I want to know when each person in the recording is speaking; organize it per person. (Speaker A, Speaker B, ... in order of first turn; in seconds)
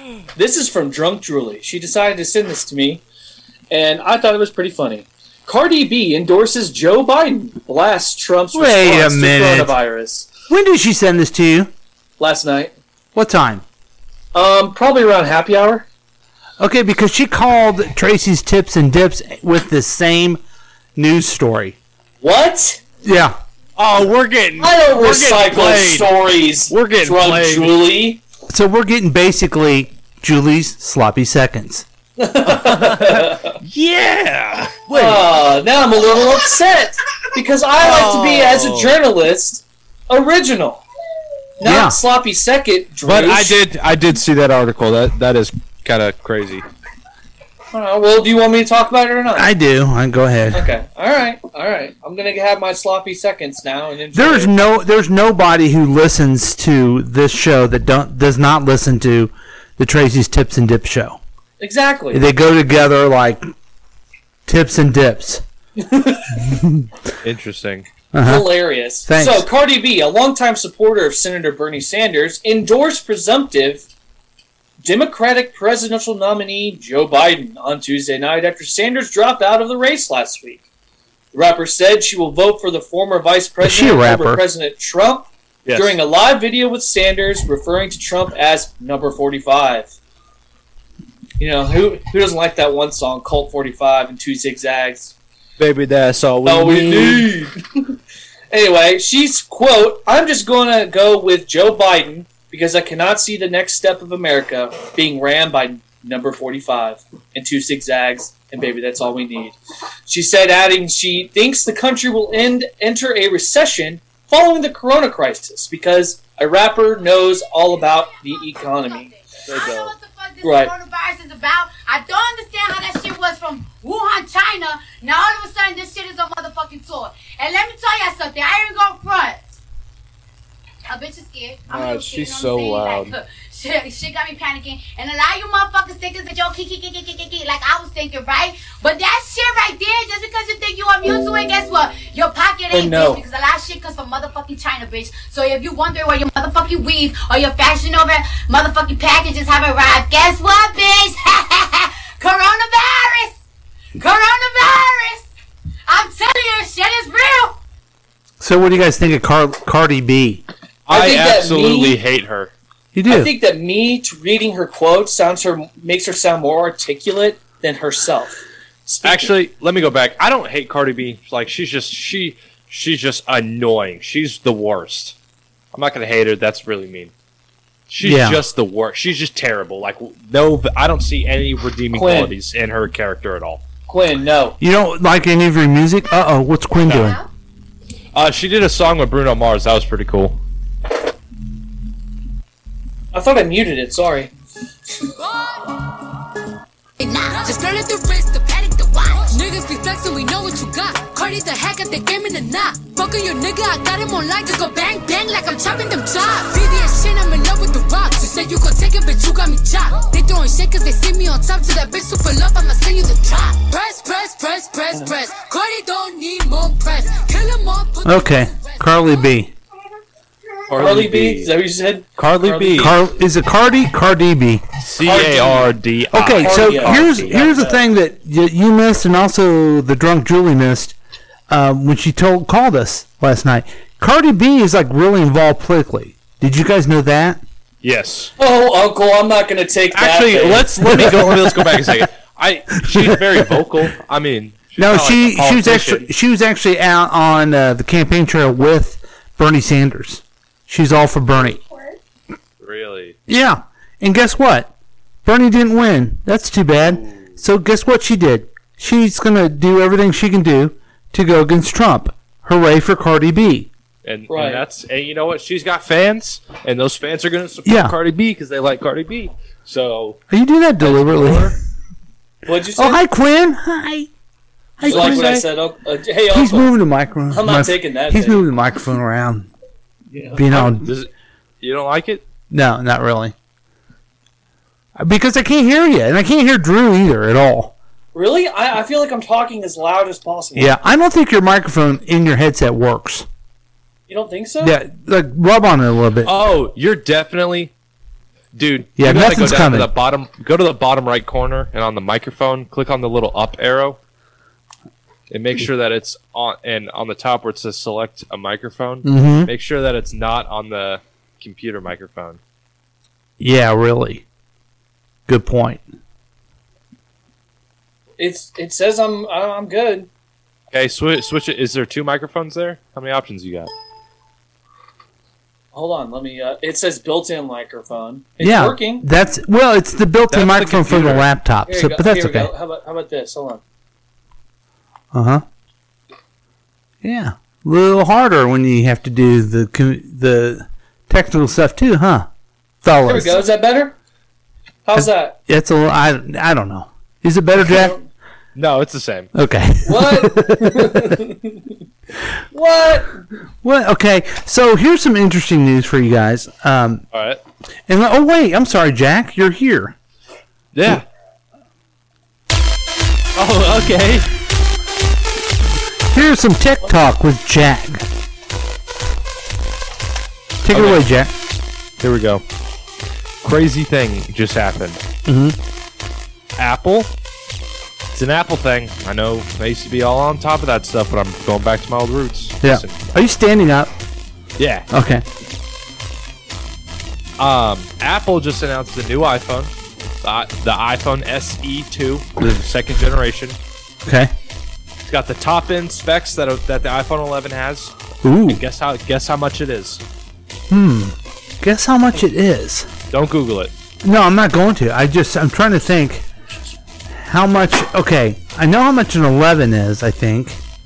Speaker A: 0.3-3.0, 3.7-10.3, 12.2-12.7, 14.3-15.8, 22.2-22.8, 24.6-28.2, 32.2-33.5, 34.9-40.8, 41.6-43.6, 47.7-49.5, 50.5-54.5, 61.6-62.2, 65.8-66.3, 68.2-73.8, 74.8-80.7, 81.3-89.9, 91.4-95.1, 96.4-97.6, 98.5-109.5, 110.1-119.1, 120.4-120.7, 142.7-143.2, 160.9-161.9, 163.1-169.3, 181.9-182.3, 183.9-184.6, 193.1-194.3, 220.8-222.9, 225.0-225.7, 226.4-227.8, 238.4-240.7, 264.3-264.6, 272.4-273.0, 274.8-276.7, 277.3-278.4, 280.1-280.4, 288.1-290.8, 294.1-294.8, 318.2-320.1, 325.7-329.1, 331.7-333.6, 343.1-343.9, 344.8-345.4, 347.6-348.0, 349.9-351.6, 352.5-353.2
Speaker B: 8.5-9.7, 10.5-11.7, 13.1-13.6, 16.6-20.4, 20.9-21.8, 23.0-23.4, 28.5-31.8, 41.6-42.0, 49.3-50.6, 54.1-61.2, 62.1-63.5, 64.5-65.4, 66.5-66.9, 68.1-68.5, 69.0-69.5, 83.6-84.4, 158.4-160.4, 162.9-163.3, 178.0-178.4, 184.6-187.2, 218.0-219.5, 222.8-224.6, 226.1-230.9, 231.5-237.4, 240.8-242.0, 242.9-243.4, 244.8-251.6, 253.3-254.7, 255.2-263.7, 267.6-267.9, 270.3-271.5, 272.8-274.1, 274.8-275.5, 276.3-279.5, 280.3-280.9, 282.5-283.3, 285.0-287.7, 290.5-293.3, 294.6-296.3, 299.0-299.9, 309.0-309.5, 313.4-314.2, 315.3-315.8, 328.4-332.5, 335.1-335.4, 337.0-342.3, 342.8-343.4, 344.9-347.9, 349.3-351.1, 353.6-357.0, 357.9-359.9, 366.1-368.0, 370.6-371.3, 375.2-375.6, 382.6-383.9, 384.9-385.2, 394.0-394.3, 398.2-398.6, 400.7-402.9, 404.0-406.2, 407.1-410.6
Speaker C: 23.8-27.8, 32.5-35.2, 37.8-39.0, 43.0-46.6, 67.2-67.9, 85.7-86.0, 95.6-97.3, 119.5-119.9, 131.7-133.1, 160.9-162.5, 169.0-175.1, 175.7-177.1, 177.9-183.6, 188.1-190.4, 220.7-221.5, 222.2-222.9, 224.8-227.4, 237.8-238.3, 239.9-246.1, 252.6-253.1, 256.8-257.3, 264.0-270.2, 270.8-271.5, 274.8-275.4, 280.5-281.1, 281.6-282.2, 296.2-297.7, 298.5-304.0, 305.3-312.4, 320.7-323.7, 330.3-331.3, 348.5-349.3, 357.1-357.4, 360.7-361.0, 363.3-364.3, 370.7-371.1, 372.0-372.4, 373.4-375.0, 376.6-377.1, 378.1-383.1, 384.6-384.9, 387.4-393.6, 395.1-397.9, 398.4-400.0, 403.1-403.7
Speaker D: 117.8-129.5, 130.9-153.4, 154.0-155.3, 155.9-157.6, 197.0-197.4
Speaker E: 195.2-195.6, 197.2-218.8